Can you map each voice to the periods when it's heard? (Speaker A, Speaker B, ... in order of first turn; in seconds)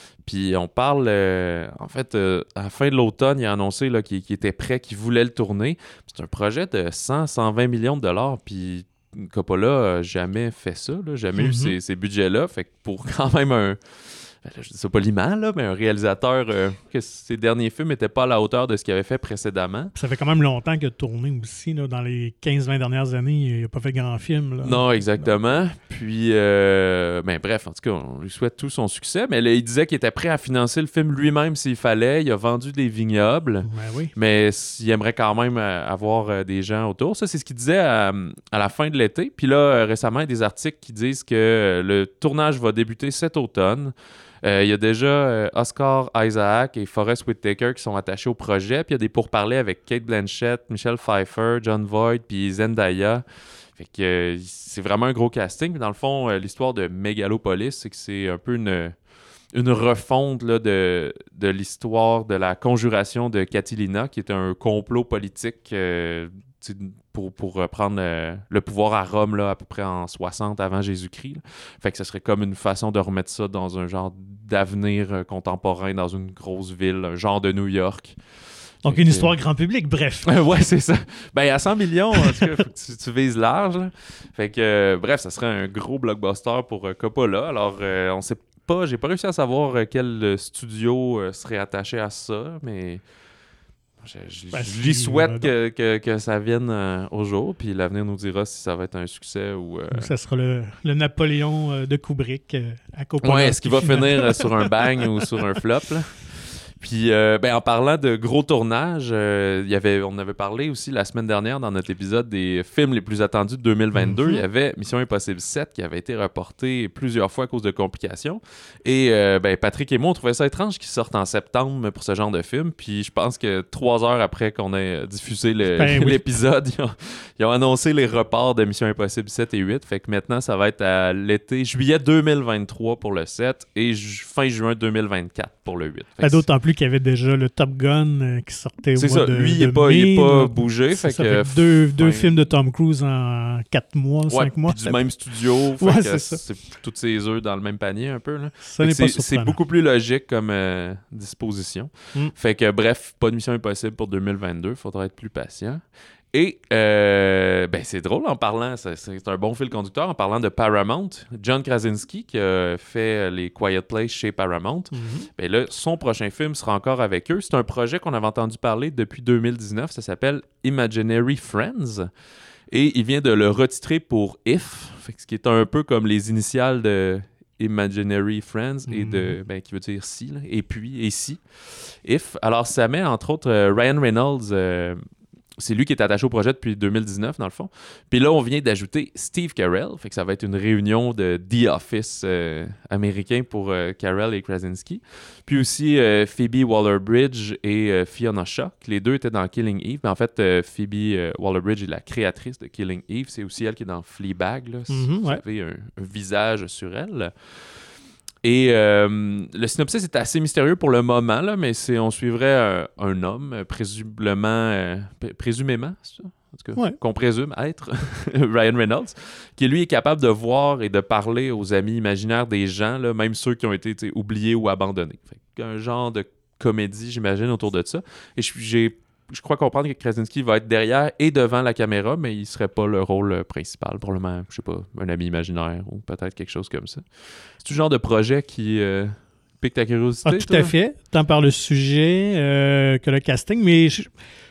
Speaker A: 0.2-19.9, 24.6-79.3, 80.2-93.0, 94.0-100.1, 103.2-136.4, 138.9-142.5, 144.3-172.1, 172.7-185.0, 185.6-240.7
Speaker B: 11.3-11.7, 19.9-25.3, 33.6-34.1, 78.8-80.3, 94.5-95.5, 99.9-104.7, 113.9-114.4, 125.7-126.2, 136.2-145.1, 145.8-146.4, 148.6-149.6, 164.9-165.3, 178.9-179.4, 204.9-205.4, 240.2-244.1